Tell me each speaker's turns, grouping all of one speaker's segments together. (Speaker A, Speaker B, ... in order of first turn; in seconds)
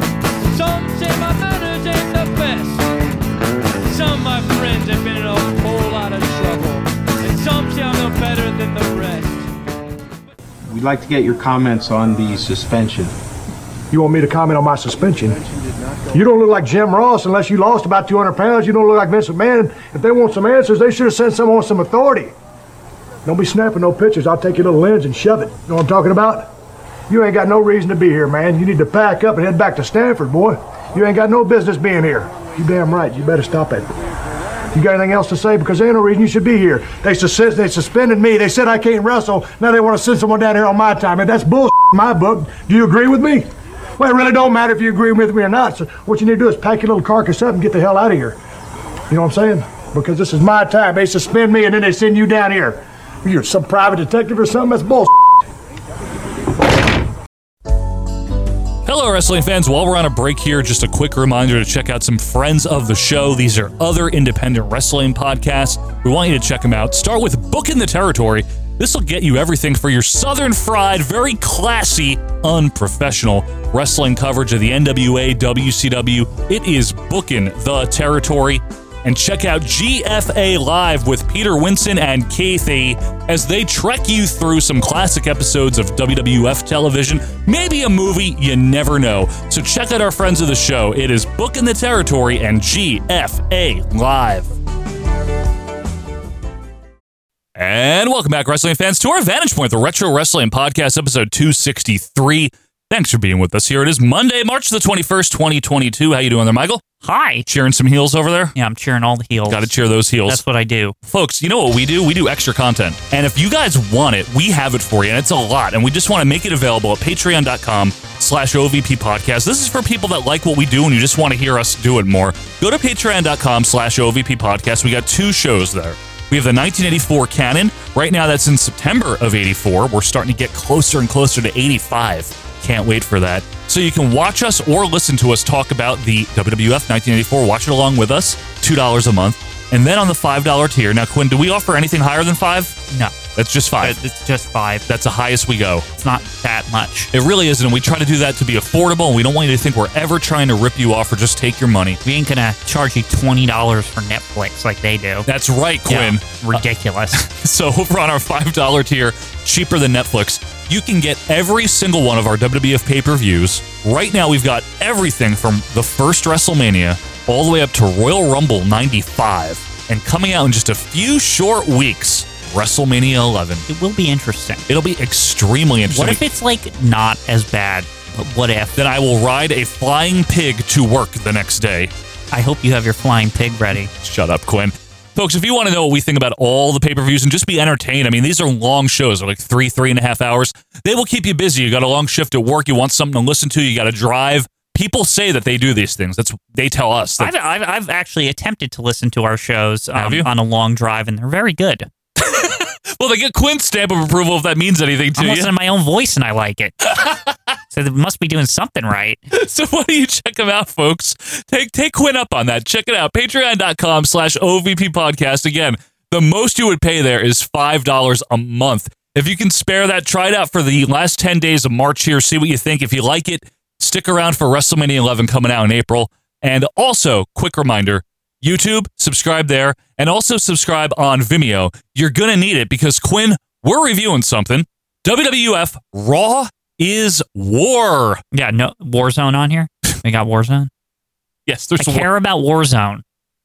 Speaker A: 0.4-2.9, 3.9-9.5
Speaker B: 10.7-13.1
Speaker C: 13.9-15.4, 16.1-22.3, 23.2-26.5, 27.1-33.9, 34.7-48.4, 49.1-55.1
Speaker D: 58.9-94.5, 97.5-106.8, 107.5-108.5, 109.5-110.4, 111.0-142.8, 143.3-143.9, 144.9-145.8, 147.1-152.0, 155.2-156.6, 157.1-173.6, 174.7-176.2, 178.8-181.9, 183.9-197.3, 199.9-200.3, 202.2-205.5, 209.3-238.2, 241.5-242.1
Speaker E: 107.0-107.5, 108.5-109.7, 110.3-110.9, 143.8-144.8, 145.9-147.1, 152.0-155.3, 155.8-157.2, 173.7-174.6, 175.9-178.7, 182.3-183.9, 197.2-201.9, 205.2-206.9, 207.7-209.2, 238.3-240.7, 241.8-243.0